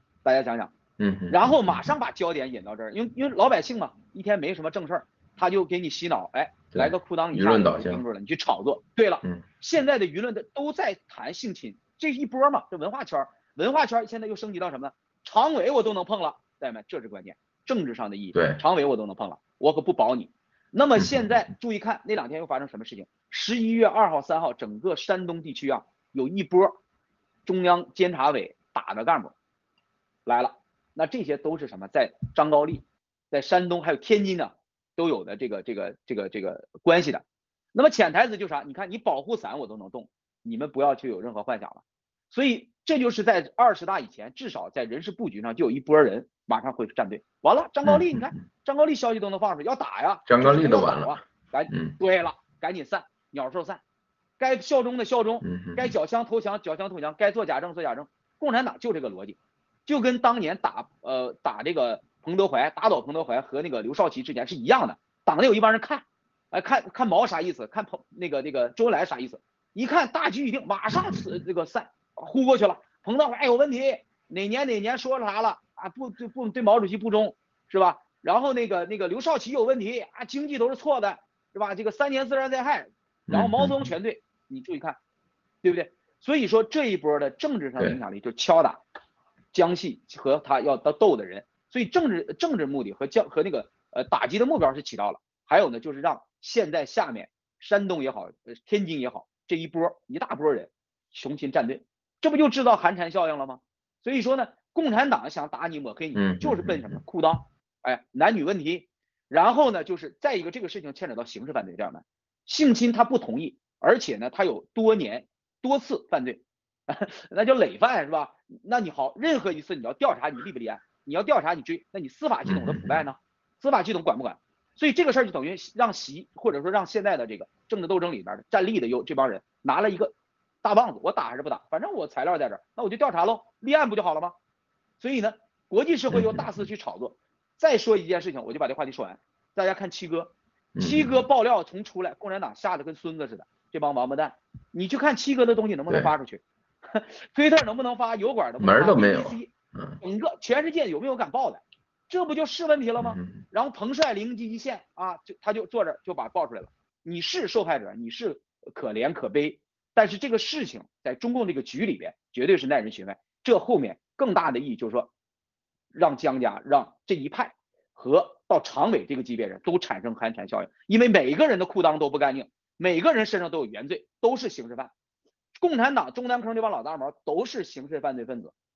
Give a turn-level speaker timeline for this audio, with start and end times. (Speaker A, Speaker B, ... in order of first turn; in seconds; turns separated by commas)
Speaker A: 0.2-0.7, Speaker B: 1.0-1.9, Speaker A: 1.3-26.8, Speaker B: 6.7-8.0, Speaker B: 18.3-18.6, Speaker B: 21.0-21.3, Speaker A: 27.4-29.3, Speaker A: 30.2-53.8, Speaker B: 47.8-48.3, Speaker B: 50.3-51.2, Speaker B: 51.7-52.0, Speaker A: 54.4-85.0, Speaker B: 55.4-55.9, Speaker B: 71.0-71.3, Speaker B: 83.3-83.9, Speaker A: 85.6-88.8, Speaker A: 89.5-134.3, Speaker B: 106.1-107.0, Speaker B: 122.4-123.0, Speaker A: 135.0-149.5, Speaker B: 136.1-136.6, Speaker B: 140.7-141.2, Speaker B: 145.9-146.1, Speaker B: 148.6-150.0, Speaker A: 150.0-165.1, Speaker B: 153.0-153.4, Speaker A: 165.9-174.9, Speaker A: 175.6-178.5